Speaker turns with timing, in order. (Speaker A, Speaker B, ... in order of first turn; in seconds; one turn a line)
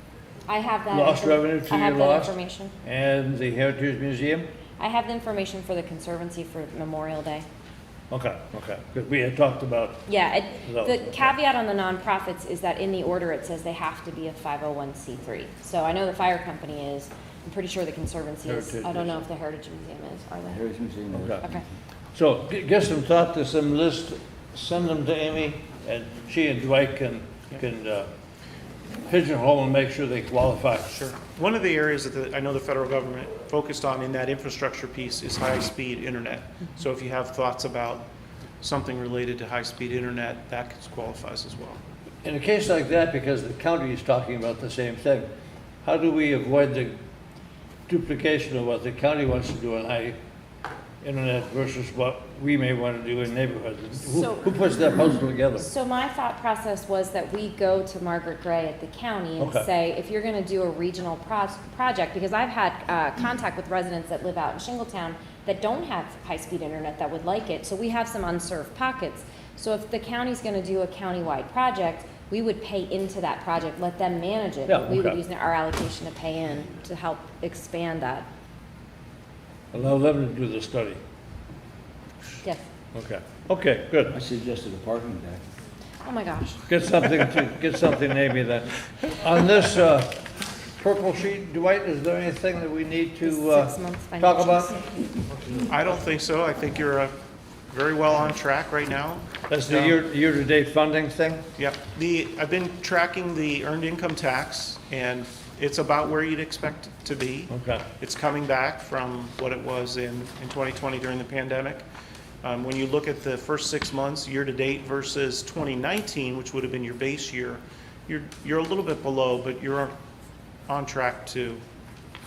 Speaker A: 0.5-2.7
Speaker B: 0.9-4.5
Speaker A: 4.8-7.5
Speaker B: 8.1-10.1
Speaker A: 10.1-20.6
Speaker B: 10.6-11.2
Speaker B: 18.4-19.2
Speaker C: 20.5-21.7
Speaker B: 21.1-21.4
Speaker B: 22.1-28.1
Speaker B: 29.1-30.9
Speaker D: 30.9-38.1
Speaker D: 38.6-41.8
Speaker B: 42.2-45.3
Speaker B: 45.8-47.0
Speaker B: 47.9-50.2
Speaker B: 51.0-55.7
Speaker A: 54.0-54.5
Speaker A: 55.6-78.3
Speaker B: 59.4-59.7
Speaker B: 74.7-75.2
Speaker B: 79.7-81.0
Speaker B: 82.9-84.1
Speaker C: 84.1-85.4
Speaker A: 86.0-86.6
Speaker B: 86.7-94.8
Speaker A: 93.2-95.0
Speaker D: 95.7-97.1
Speaker D: 97.7-100.0
Speaker B: 99.5-101.4
Speaker D: 101.6-111.8
Speaker B: 107.5-107.8
Speaker D: 112.4-119.9
Speaker D: 120.7-121.6